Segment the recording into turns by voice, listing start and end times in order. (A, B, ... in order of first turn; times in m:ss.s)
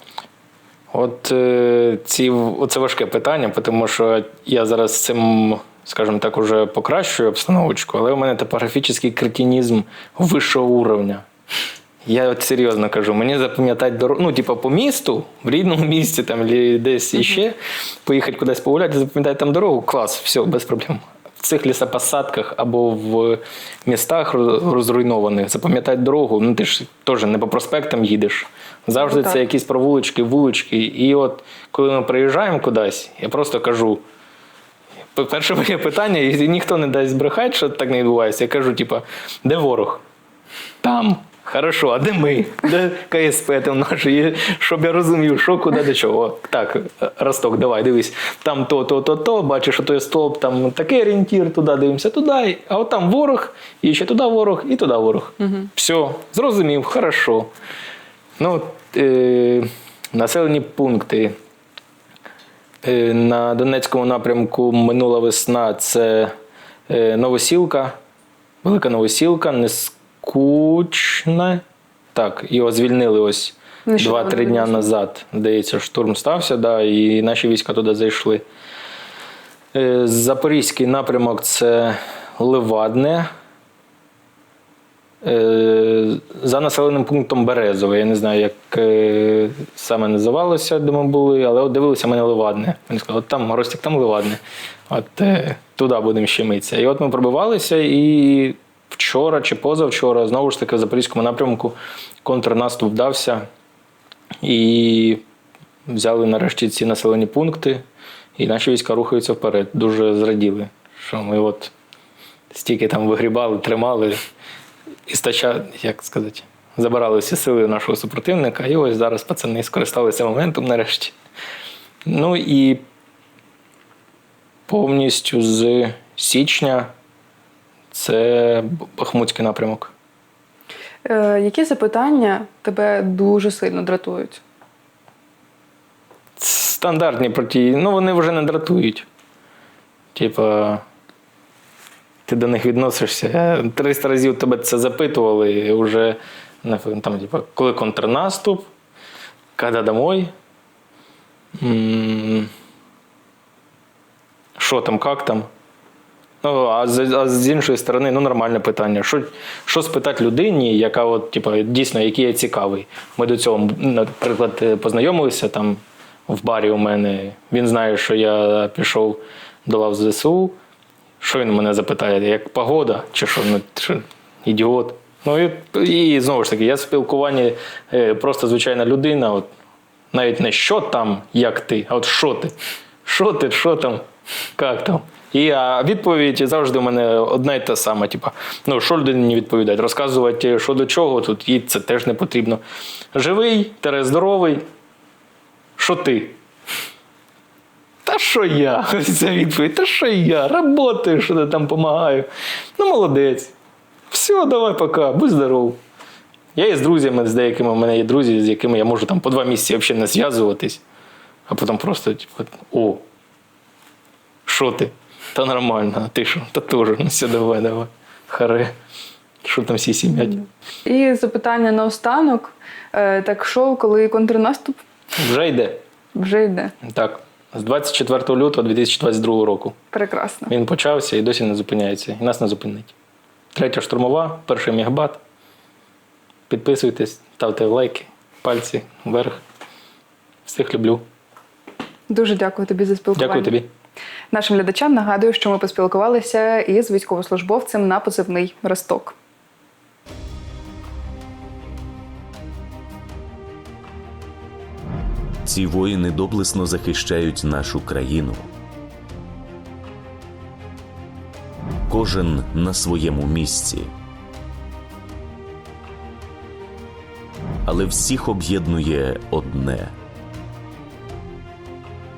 0:00.9-0:11.2 A
0:12.0-0:34.0 A
0:29.0-0:29.4 B
0:35.1-0:40.0 A
0:40.8-0:57.5 A
0:58.4-1:01.4 A
1:02.8-1:06.4 A
1:06.9-1:08.0 A
1:08.6-1:11.6 A
1:12.2-1:18.4 A
1:13.9-1:14.9 B
1:19.7-1:23.3 A
1:25.2-1:43.4 A
1:44.4-1:45.2 A
1:45.9-1:47.8 A
1:48.4-1:51.7 A
1:52.5-1:54.2 A
1:55.1-2:01.2 A
2:02.1-2:02.8 A
2:04.7-2:06.9 A
2:07.9-2:09.9 A
2:11.0-2:14.4 B
2:16.4-2:19.1 A
2:20.1-2:20.8 A
2:22.3-2:28.7 A
2:29.6-2:30.3 A
2:31.6-2:32.5 A
2:34.6-2:35.5 A
2:36.4-2:50.6 A
2:51.2-2:59.5 A
3:00.1-3:04.0 A
3:04.6-3:12.6 A
3:13.1-3:14.6 A
3:15.8-3:16.4 A
3:18.1-3:23.5 A
3:24.1-3:25.8 A
3:26.6-3:30.8 A
3:31.5-3:33.0 A
3:34.5-3:38.7 A
3:39.4-3:40.4 A
3:40.9-3:44.8 B
3:45.2-3:45.8 A
3:46.2-3:46.7 B
3:46.8-3:49.8 A
3:49.9-3:50.5 B
3:50.5-3:52.9 A
3:53.5-3:55.2 A
3:56.5-3:59.4 A
4:00.5-4:01.0 A
4:02.1-4:03.6 B
4:03.2-4:03.7 A
4:04.3-4:09.2 B
4:15.4-4:18.5 C
4:21.9-4:23.9 C
4:27.7-4:29.9 C